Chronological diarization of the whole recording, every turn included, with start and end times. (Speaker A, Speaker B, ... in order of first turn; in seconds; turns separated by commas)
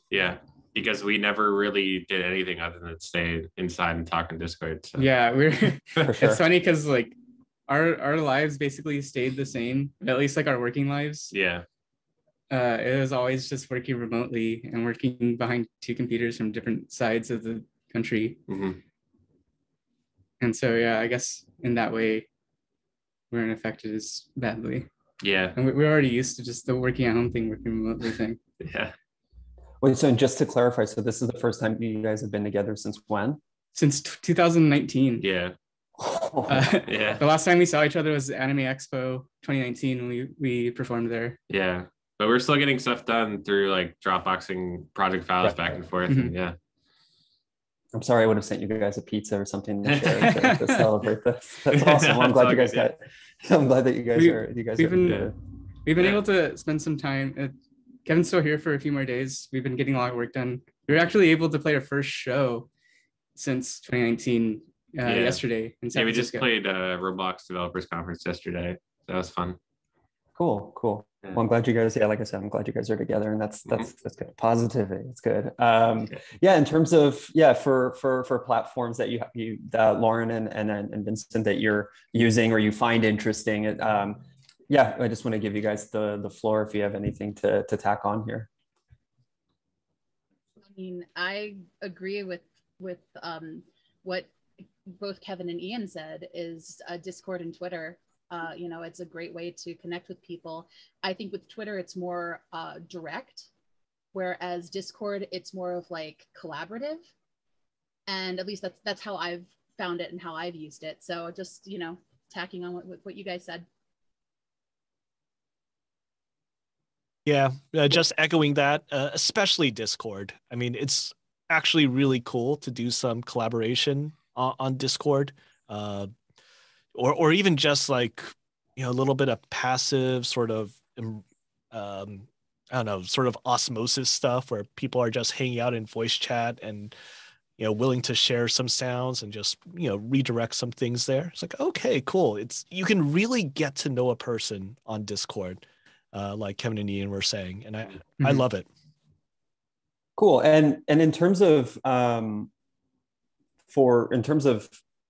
Speaker A: 0.1-5.1, Speaker B: 5.0-7.2, Speaker C: 6.0-6.4, Speaker B: 7.7-11.3, Speaker A: 11.3-11.7, Speaker B: 12.5-18.4, Speaker A: 18.5-18.8, Speaker B: 20.4-22.3, Speaker B: 23.3-24.9, Speaker A: 25.2-25.6, Speaker B: 25.6-28.4, Speaker A: 28.6-28.9, Speaker C: 29.8-33.4, Speaker B: 33.8-35.2, Speaker A: 35.2-35.5, Speaker C: 36.0-36.7, Speaker B: 36.5-41.4, Speaker A: 36.9-37.2, Speaker A: 41.5-46.5, Speaker B: 46.1-46.3, Speaker C: 47.9-55.3, Speaker A: 50.0-50.3, Speaker B: 50.2-50.9, Speaker A: 51.7-52.9, Speaker B: 54.1-55.3, Speaker B: 55.9-62.7, Speaker A: 56.0-56.2, Speaker B: 63.4-66.5, Speaker A: 65.0-69.6, Speaker C: 70.4-88.5, Speaker D: 90.6-94.3, Speaker D: 94.9-103.5, Speaker D: 104.1-107.1, Speaker D: 108.1-113.7, Speaker E: 117.3-126.1, Speaker E: 127.0-136.9, Speaker E: 137.6-148.7, Speaker C: 150.2-152.5, Speaker C: 153.7-154.8